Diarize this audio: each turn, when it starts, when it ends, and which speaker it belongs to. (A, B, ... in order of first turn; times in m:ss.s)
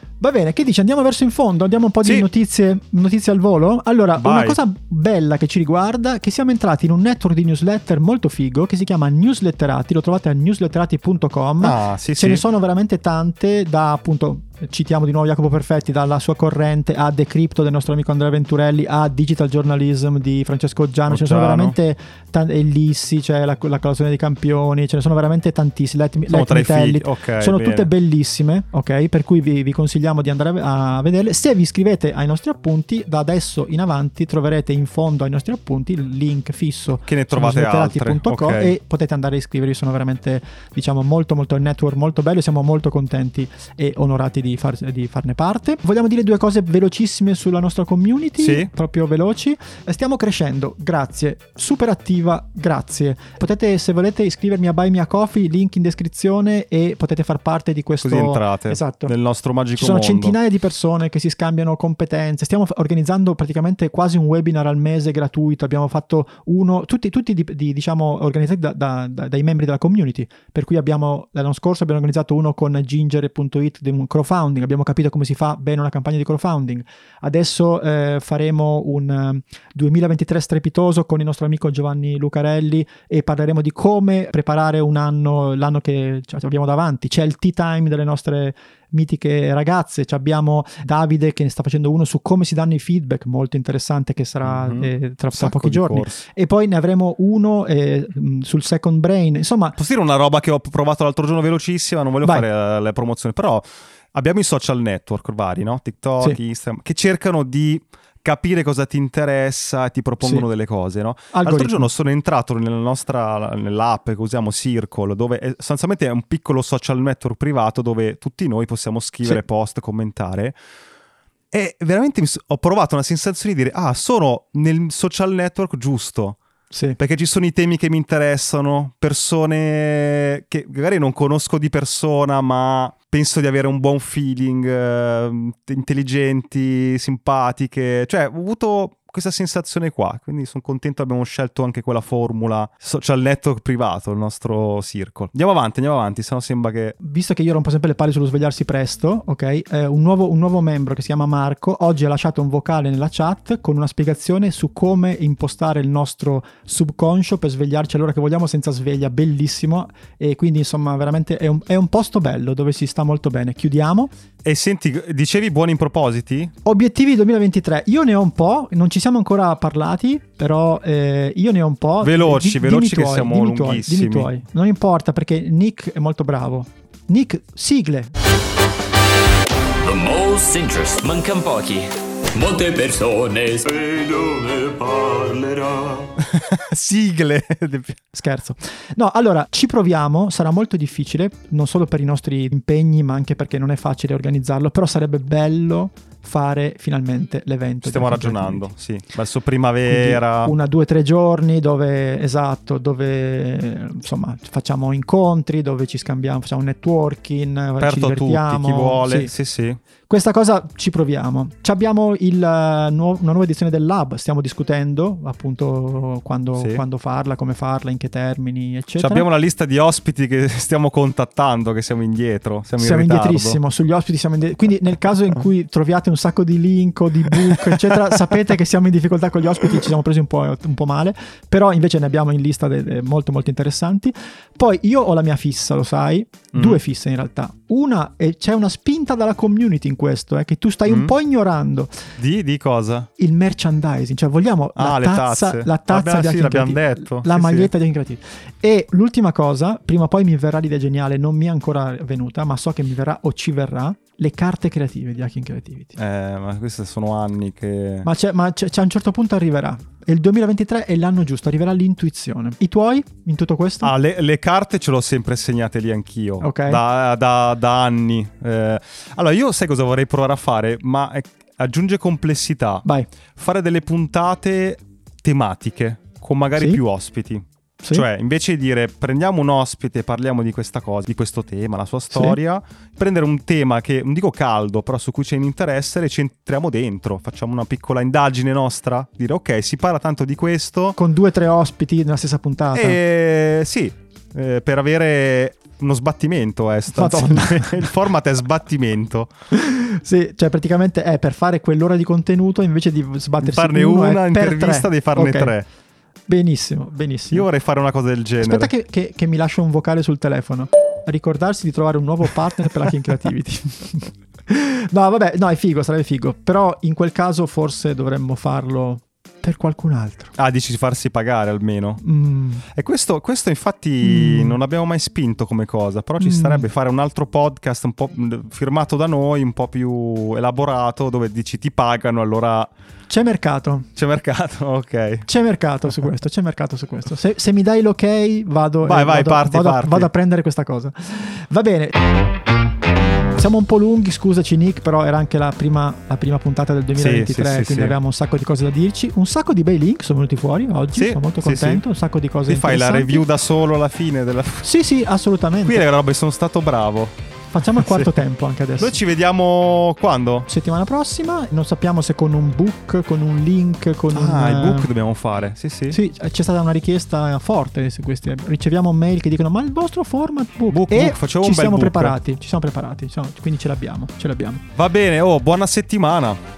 0:00.2-0:59.1 A
0:04.2-0:04.6 B
0:11.6-0:12.4 B
0:21.1-0:21.8 B
0:26.2-0:27.9 B
0:37.1-0:38.8 B
0:48.4-0:48.7 B
0:58.0-1:00.4 B
0:59.8-1:39.8 A
1:34.4-1:36.2 B
1:39.8-2:00.6 B
1:51.3-1:51.9 A
2:01.5-2:06.4 B
2:06.7-2:07.0 A
2:07.0-2:27.0 B
2:27.0-2:44.1 A
2:44.4-2:46.5 B
2:46.6-2:58.1 A
2:52.0-2:54.4 B
2:59.9-3:01.8 C
3:02.4-3:06.0 C
3:06.2-3:08.0 B
3:08.1-3:18.7 A
3:17.8-3:20.5 B
3:19.8-3:29.3 A
3:27.8-3:29.8 B
3:30.1-3:39.2 A
3:36.6-3:36.8 B
3:39.0-3:43.6 B
3:42.8-4:01.9 A
3:47.3-3:48.0 B
3:56.5-3:56.8 B
4:00.8-4:01.1 B
4:02.2-4:03.1 B
4:03.2-4:16.0 A
4:04.8-4:07.7 B
4:16.0-4:18.1 B
4:18.0-4:23.9 A
4:23.8-4:32.8 B
4:26.4-4:26.8 A
4:33.4-4:51.0 B
4:42.1-4:42.4 A
4:51.0-4:53.0 A
4:52.7-4:59.3 B
4:56.9-4:57.9 A
4:59.5-5:05.5 A
5:03.4-5:05.7 B
5:06.3-5:07.5 A
5:07.3-5:08.7 B
5:08.4-5:20.3 A
5:20.4-5:22.0 B
5:22.0-5:22.6 A
5:22.7-5:32.7 B
5:24.0-5:24.6 A
5:26.2-5:26.6 A
5:33.1-5:33.9 A
5:34.0-5:35.3 B
5:35.2-5:42.0 A
5:38.8-5:40.1 B
5:43.3-5:53.2 A
5:46.9-5:48.0 B
5:50.9-5:51.8 B
5:52.5-5:54.7 B
5:54.6-5:55.8 A
5:55.6-5:57.2 B
5:57.5-5:59.0 A
5:57.7-5:58.1 B
5:58.8-6:00.5 B
6:00.5-6:04.9 A
6:04.1-6:06.0 B
6:05.9-6:14.6 A
6:10.7-6:12.2 B
6:14.8-6:16.4 B